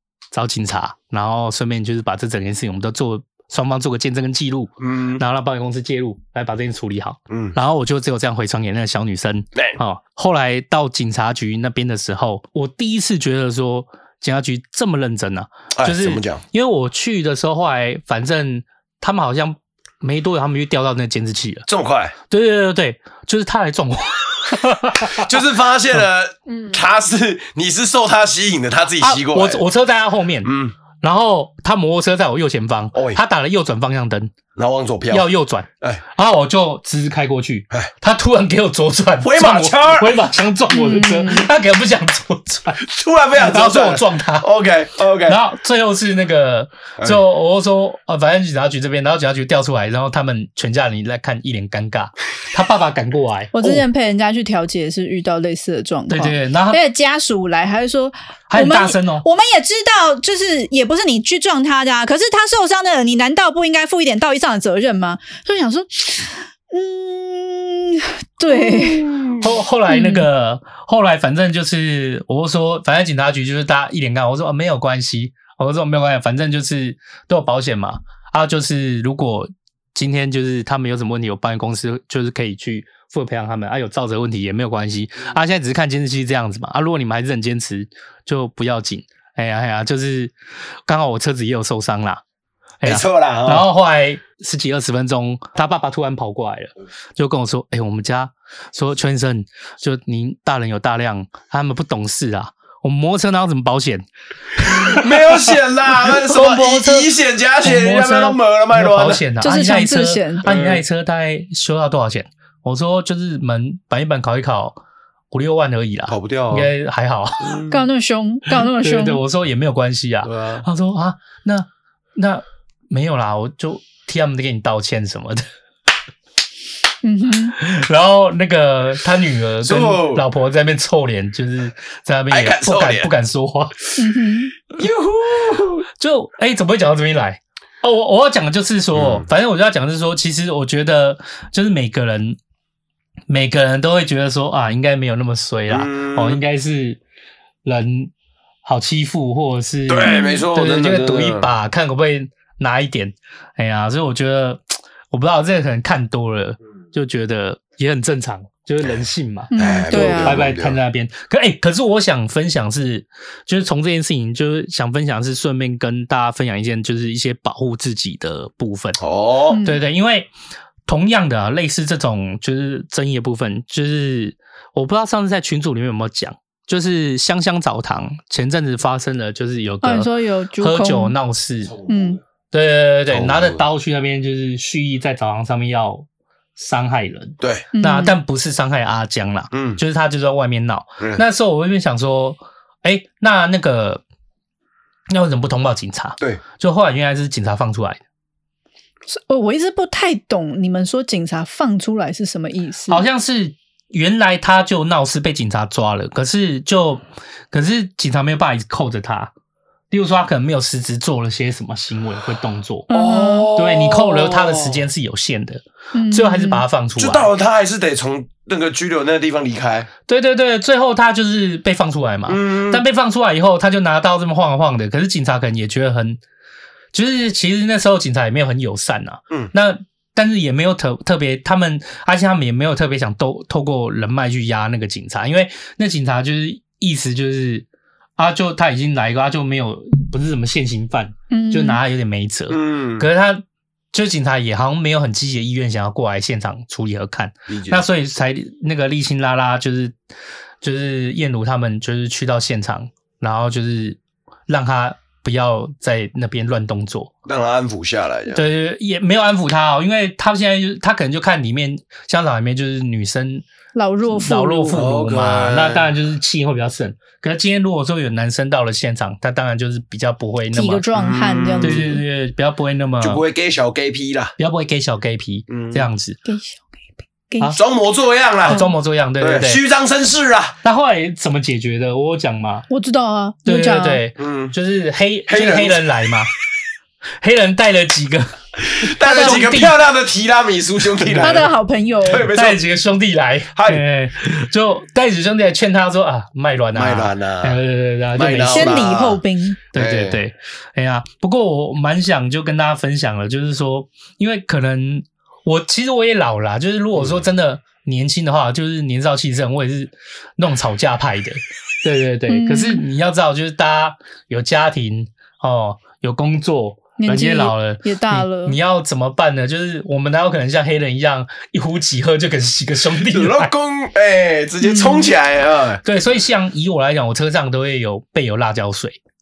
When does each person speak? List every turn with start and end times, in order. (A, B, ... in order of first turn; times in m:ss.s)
0:00.3-0:21.6 A
0:04.8-0:05.2 B
0:07.3-0:07.6 B
0:15.8-0:16.4 B
0:21.7-0:22.1 B
0:22.3-0:25.3 A
0:25.2-0:29.6 B
0:29.0-0:34.3 A
0:30.4-0:30.7 B
0:32.9-0:33.2 B
0:34.5-0:35.3 B
0:35.1-0:44.5 A
0:39.2-0:40.2 B
0:40.7-0:41.5 C
0:42.8-0:45.4 B
0:45.2-0:53.8 A
0:53.5-1:09.1 C
0:56.1-0:56.8 A
0:58.5-0:59.2 A
1:08.5-1:09.4 B
1:09.4-1:30.3 A
1:09.9-1:10.3 C
1:30.8-1:32.2 A
1:32.8-1:44.0 A
1:32.8-1:33.6 B
1:44.6-1:45.5 A
1:44.8-1:49.2 B
1:46.0-1:54.8 A
1:49.4-1:50.5 C
1:50.4-1:50.8 B
1:55.3-1:57.6 A
1:56.1-1:56.7 B
1:57.4-1:57.8 B
1:57.7-1:59.2 C
1:58.8-2:05.4 A
2:00.2-2:00.6 B
2:07.0-2:07.6 C
2:07.6-2:13.9 A
2:09.6-2:10.2 B
2:12.3-2:13.1 B
2:14.0-2:14.5 C
2:14.8-2:15.8 B
2:16.0-2:22.4 A
2:18.9-2:19.2 B
2:23.3-2:27.0 A
2:25.7-2:26.4 B
2:27.6-2:28.1 A
2:28.6-2:49.0 A
2:29.9-2:31.5 B
2:30.0-2:30.4 C
2:39.5-2:40.4 C
2:39.5-2:40.8 B
2:49.0-2:49.6 B
2:49.5-2:49.8 C
2:49.6-2:50.3 A
2:50.8-3:01.8 A
2:59.8-3:01.1 C
3:01.9-3:02.2 C
3:02.5-3:14.0 A
3:03.1-3:03.6 B
3:07.4-3:07.6 B
3:07.7-3:08.2 C
3:09.5-3:09.8 B
3:15.1-3:18.0 A
3:19.1-3:23.0 C
3:22.9-3:29.3 A
3:29.9-3:32.9 A
3:32.9-3:33.5 C
3:32.9-3:34.8 B
3:33.5-3:37.3 A
3:35.9-3:36.6 C
3:37.0-3:39.9 B
3:40.1-3:46.2 A
3:42.3-3:42.8 B
3:46.9-3:57.6 A
3:58.2-4:03.4 A
4:01.3-4:01.8 C
4:02.5-4:03.0 B
4:03.9-4:09.9 A
4:07.5-4:07.8 B
4:10.6-4:17.1 A
4:17.2-4:18.4 B
4:18.3-4:23.4 A
4:23.7-4:24.8 C
4:24.0-4:30.8 A
4:24.7-4:25.9 B
4:30.5-4:32.0 C
4:30.9-4:31.9 B
4:31.6-4:33.2 A
4:33.0-4:34.3 B
4:34.4-4:36.2 A
4:35.5-4:35.9 B
4:36.2-4:37.6 C
4:37.5-4:38.7 B
4:38.4-4:39.6 A
4:39.2-4:40.5 B
4:40.6-4:42.7 A
4:42.7-4:44.0 C
4:43.4-4:46.3 A
4:44.2-4:44.5 B
4:45.3-4:45.8 B
4:47.2-4:49.8 A
4:48.6-4:51.5 B
4:51.0-4:51.5 A
4:51.2-4:52.3 C
4:52.0-4:52.6 B
4:52.3-4:58.9 A
4:53.5-4:53.8 B
4:56.7-4:57.6 B
4:58.1-4:59.2 B
4:58.5-4:59.6 C
4:59.7-5:23.5 A
4:59.7-5:00.2 B
5:06.9-5:07.2 B
5:12.3-5:12.8 C
5:17.0-5:18.6 C
5:23.1-5:25.8 B
5:24.6-5:25.1 C
5:25.8-5:29.0 A